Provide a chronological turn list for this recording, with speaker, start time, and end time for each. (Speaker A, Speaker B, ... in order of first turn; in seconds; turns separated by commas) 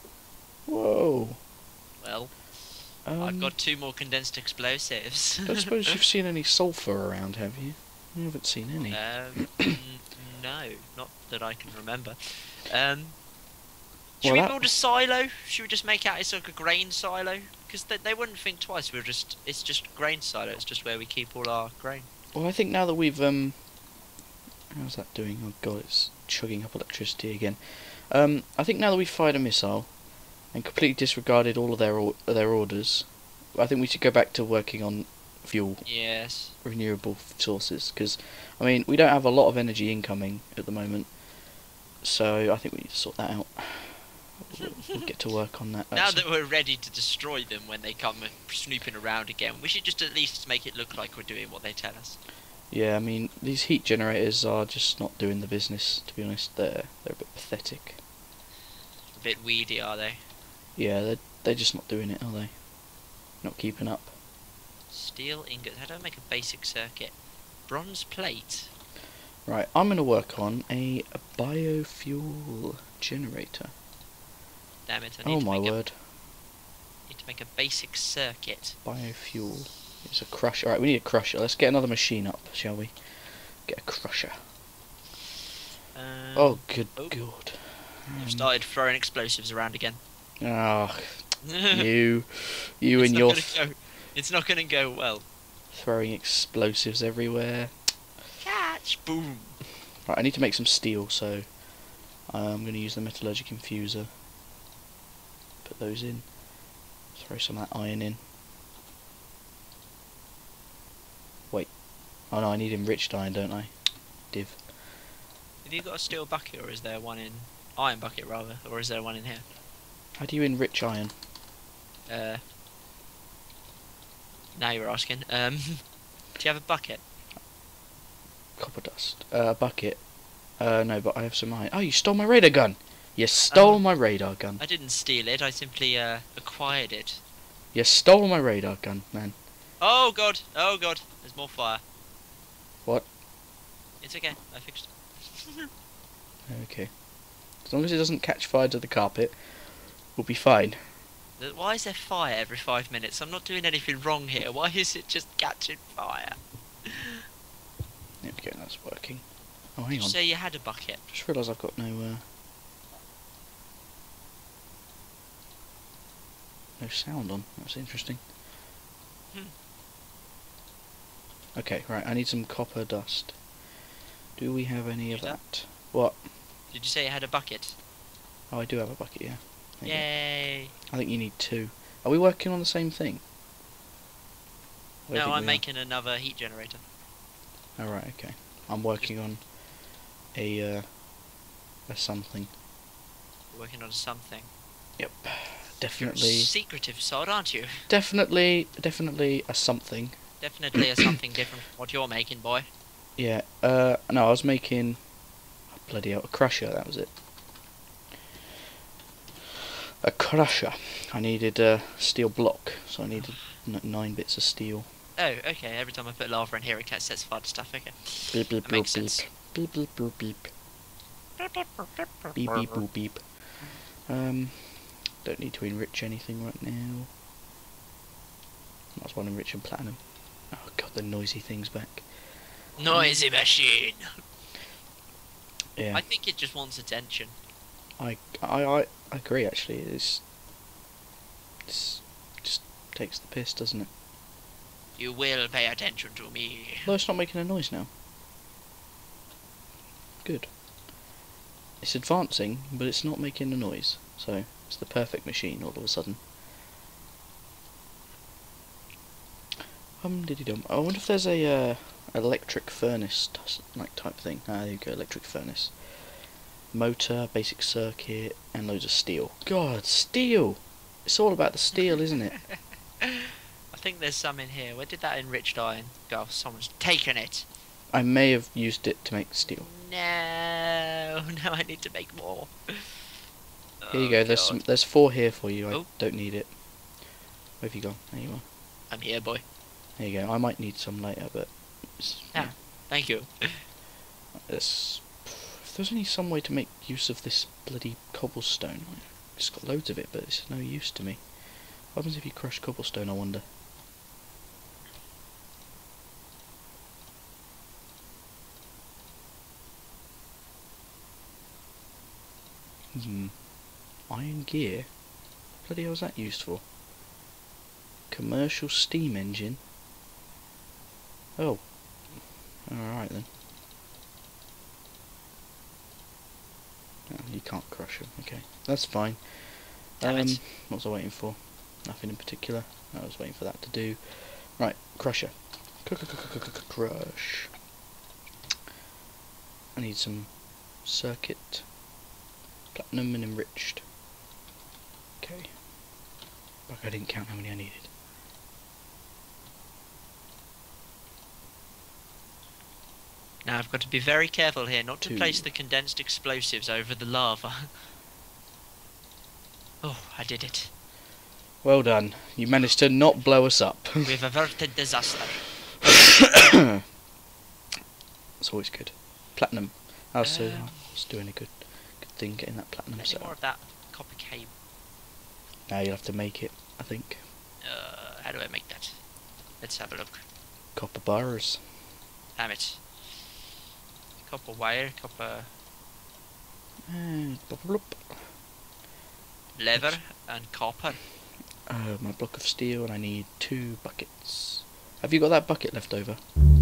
Speaker A: 0.7-1.4, Speaker B: 2.0-2.5, Speaker A: 3.0-3.5, Speaker B: 3.1-5.5, Speaker A: 5.5-9.8, Speaker B: 8.9-13.2, Speaker B: 14.2-22.1, Speaker A: 14.2-14.7, Speaker A: 22.3-23.6, Speaker A: 24.7-35.9, Speaker B: 35.8-36.5, Speaker A: 36.6-41.2, Speaker A: 42.0-46.2, Speaker B: 45.9-52.2, Speaker A: 52.7-58.0, Speaker B: 59.1-60.2, Speaker A: 60.8-62.5, Speaker A: 63.4-64.1, Speaker B: 64.9-68.7, Speaker A: 69.4-73.7, Speaker B: 74.8-75.8, Speaker A: 75.2-76.0, Speaker B: 77.1-78.8, Speaker A: 78.8-84.4, Speaker B: 85.9-87.2, Speaker A: 86.3-88.5, Speaker B: 88.1-90.0, Speaker A: 90.4-93.6, Speaker B: 91.4-91.9, Speaker B: 92.9-95.2, Speaker A: 95.7-97.7, Speaker B: 98.4-99.6, Speaker A: 100.1-101.6, Speaker A: 102.3-104.1, Speaker A: 105.6-106.3, Speaker A: 107.1-108.2, Speaker A: 111.5-113.8, Speaker A: 114.3-114.7, Speaker B: 115.6-119.5, Speaker A: 120.2-121.1, Speaker B: 122.1-122.4, Speaker B: 124.5-127.0, Speaker A: 128.6-134.6, Speaker B: 133.5-133.8, Speaker B: 134.6-137.2, Speaker A: 137.7-139.3, Speaker B: 139.8-141.8, Speaker A: 142.8-143.1, Speaker B: 144.0-145.7, Speaker A: 146.5-146.9, Speaker A: 147.6-150.8, Speaker B: 151.4-157.2, Speaker A: 158.2-160.3, Speaker B: 159.9-161.0, Speaker A: 161.1-162.2, Speaker A: 166.8-168.2, Speaker A: 171.6-173.4, Speaker A: 174.3-176.2, Speaker B: 175.1-175.4, Speaker B: 176.7-177.8, Speaker A: 178.5-183.2, Speaker B: 179.8-180.7, Speaker A: 185.1-185.6, Speaker B: 185.1-186.8, Speaker A: 187.8-189.6, Speaker A: 190.3-191.1, Speaker A: 191.9-192.5, Speaker B: 193.5-194.5, Speaker A: 195.0-196.5, Speaker B: 195.9-197.9, Speaker A: 197.9-200.8, Speaker B: 200.4-202.7, Speaker A: 203.2-205.0, Speaker A: 205.7-207.1, Speaker A: 210.0-214.8, Speaker B: 215.2-219.2, Speaker A: 218.3-220.5, Speaker B: 221.4-222.8, Speaker A: 222.3-223.4, Speaker A: 224.1-227.1, Speaker A: 228.9-232.1, Speaker B: 232.8-234.1, Speaker A: 232.9-233.2, Speaker A: 235.8-236.1, Speaker B: 235.9-237.3, Speaker A: 238.0-240.2, Speaker A: 241.7-243.9, Speaker B: 245.0-246.9, Speaker A: 246.8-247.9, Speaker A: 250.2-250.5, Speaker A: 251.8-256.2, Speaker A: 260.0-266.1, Speaker A: 266.7-272.4, Speaker B: 272.5-273.1, Speaker B: 273.7-277.4, Speaker A: 277.9-279.7, Speaker B: 279.4-282.9, Speaker B: 283.8-284.6, Speaker A: 283.9-286.6, Speaker A: 287.6-288.4, Speaker B: 288.9-289.4, Speaker A: 290.0-292.5, Speaker B: 292.3-293.6, Speaker A: 294.4-301.3, Speaker A: 301.9-303.4, Speaker A: 312.9-313.5, Speaker A: 314.1-315.0, Speaker A: 315.6-316.6, Speaker A: 318.1-319.6, Speaker A: 321.4-323.3, Speaker A: 327.1-337.6, Speaker B: 330.0-330.4, Speaker A: 339.7-341.7, Speaker A: 342.7-343.8, Speaker A: 345.2-345.6, Speaker A: 346.7-347.9, Speaker B: 353.4-357.8, Speaker A: 355.0-355.5, Speaker B: 359.8-360.7, Speaker A: 361.6-364.2, Speaker B: 364.0-365.5, Speaker A: 365.8-366.5, Speaker A: 368.4-373.4, Speaker B: 370.2-370.9, Speaker B: 373.0-374.5, Speaker A: 375.7-377.2, Speaker B: 377.6-379.0, Speaker B: 379.6-380.2, Speaker A: 380.7-381.6, Speaker B: 382.4-382.9, Speaker B: 384.2-385.5, Speaker A: 386.9-388.2, Speaker B: 389.6-391.0, Speaker A: 391.7-396.2